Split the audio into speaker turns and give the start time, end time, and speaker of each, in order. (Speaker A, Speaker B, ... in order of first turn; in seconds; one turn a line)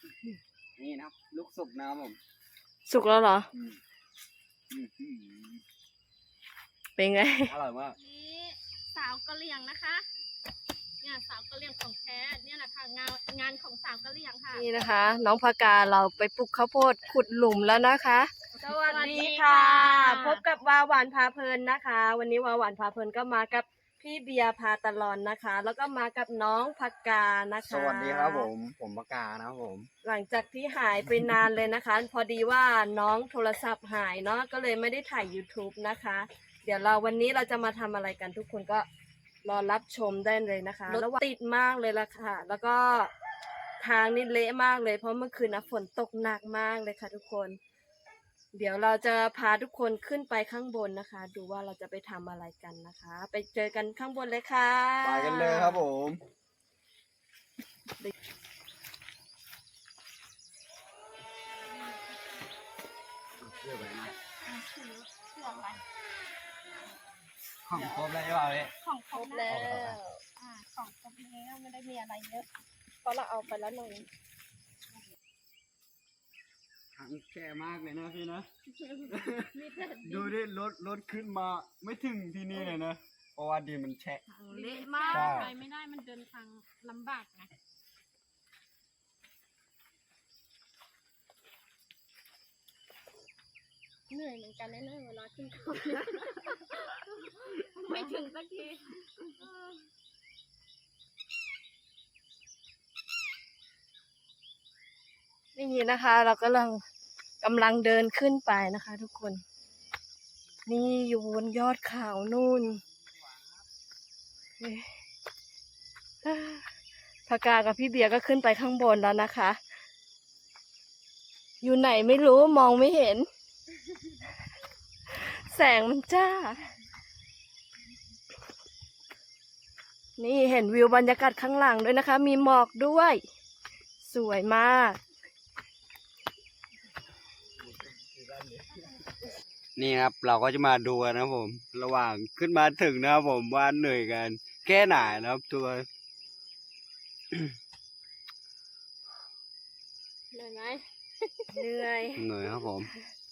Speaker A: 0.8-2.2
Speaker B: 2.9-3.5
Speaker A: 4.7-5.6
Speaker B: 7.0-7.5
Speaker A: 7.4-8.0
Speaker C: 8.0-10.1
Speaker C: 11.0-14.9
Speaker B: 14.5-28.5
Speaker C: 18.6-20.4
Speaker A: 27.6-29.9
Speaker B: 30.0-38.9
Speaker B: 39.4-43.1
Speaker B: 43.8-47.6
Speaker B: 48.5-55.9
Speaker A: 55.0-56.2
Speaker C: 61.9-62.2
Speaker A: 63.4-64.2
Speaker C: 64.4-65.8
Speaker A: 67.7-68.7
Speaker C: 68.7-69.7
Speaker B: 69.1-70.2
Speaker A: 69.5-70.0
Speaker C: 70.4-72.5
Speaker C: 73.1-74.0
Speaker B: 73.1-73.9
Speaker A: 76.9-78.5
Speaker A: 79.1-84.2
Speaker C: 79.5-80.3
Speaker B: 84.3-85.5
Speaker C: 84.5-87.5
Speaker A: 85.1-85.5
Speaker C: 94.1-99.0
Speaker B: 105.5-106.8
Speaker B: 107.4-109.4
Speaker B: 110.7-112.8
Speaker B: 114.6-114.9
Speaker B: 116.2-116.6
Speaker B: 117.3-119.6
Speaker B: 121.6-123.3
Speaker B: 125.1-126.6
Speaker B: 130.2-133.2
Speaker B: 134.0-135.0
Speaker A: 137.6-138.7
Speaker A: 139.8-145.9
Speaker C: 150.3-151.5
Speaker B: 151.5-152.2
Speaker A: 152.2-152.9